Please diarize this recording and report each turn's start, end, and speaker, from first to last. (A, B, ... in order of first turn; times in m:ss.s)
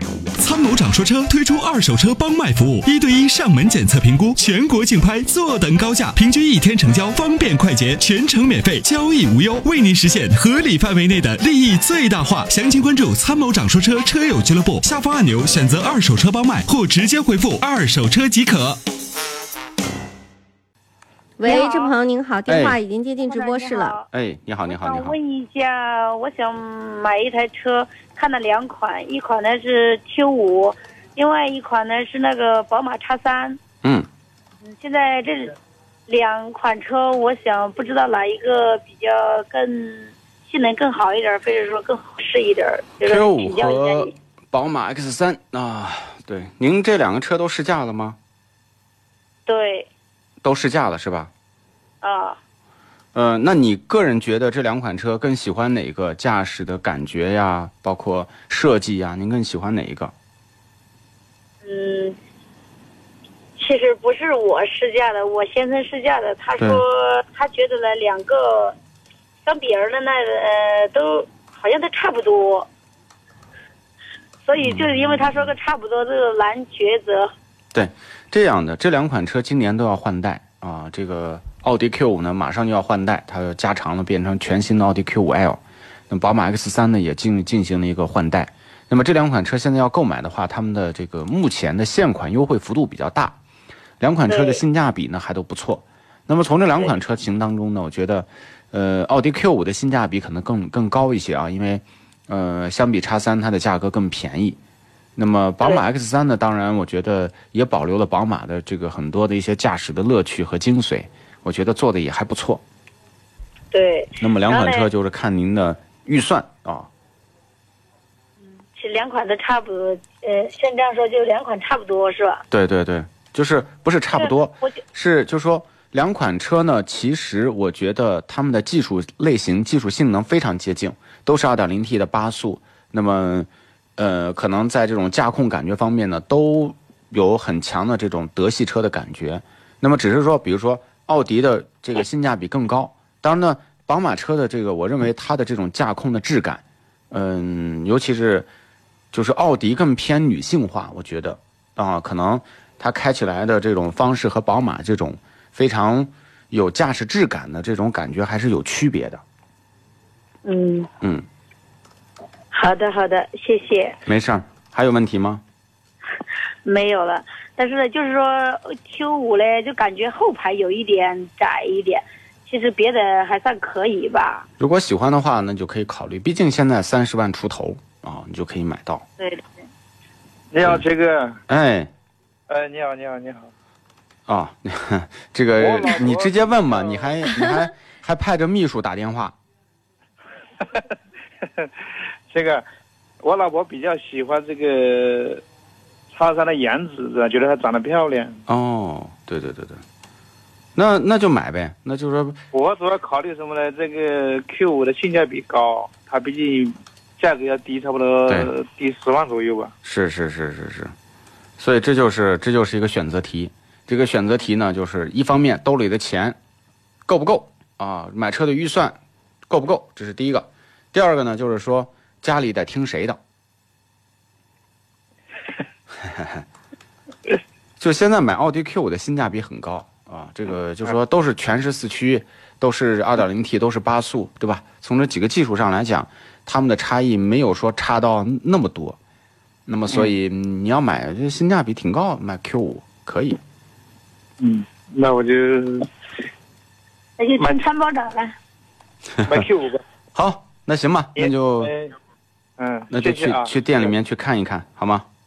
0:00.4-0:18.8 A
0:21.4-0:24.0 B
0:21.4-0:21.9 C
0:22.5-0:22.8 D
0:23.2-0:24.0 C
0:24.1-0:25.2 D
0:24.6-0:33.6 C
0:33.8-0:34.1 D
0:34.6-0:35.5 C
0:36.1-0:44.1 C
0:43.0-0:48.2 D
0:49.4-0:49.9 C
0:50.4-0:51.3 D
0:52.0-0:52.4 C
0:53.1-1:00.1 D
1:01.6-1:02.2 C
1:03.6-1:08.8 C
1:09.4-1:12.7 C
1:14.4-1:17.3 C
1:14.6-1:15.1 D
1:17.7-1:33.4 D
1:34.0-1:44.6 D
1:34.3-1:34.6 C
1:45.2-1:52.6 D
1:53.7-1:54.9 C
1:54.2-1:56.9 D
1:58.7-2:02.4 C
2:02.5-2:28.5 D
2:04.1-2:04.7 C
2:29.1-2:39.2 D
2:40.4-2:40.9 C
2:42.5-2:44.0 C
2:44.0-2:45.4 D
2:46.6-2:54.5 C
2:54.6-2:59.0 D
2:59.2-2:59.5 C
3:00.5-3:01.4 E
3:01.5-3:01.9 D
3:02.5-3:03.5 E
3:04.3-3:09.3 D
3:05.6-3:07.2 E
3:10.6-3:11.7 E
3:12.3-3:12.6 E
3:13.2-3:15.4 E
3:16.1-3:18.4 E
3:18.5-3:19.8 D
3:20.7-3:22.4 D
3:22.5-3:29.7 E
3:29.8-3:30.9 D
3:31.6-3:36.4 D
3:37.1-3:39.0 D
3:39.5-3:43.2 D
3:46.0-3:46.4 D
3:47.8-3:59.0 D
3:59.6-4:03.4 D
4:04.4-4:05.9 E
4:07.2-4:08.3 C
4:09.2-4:09.8 E
4:10.1-4:11.7 D
4:11.1-4:11.9 E
4:12.6-4:13.9 E
4:12.9-4:15.0 D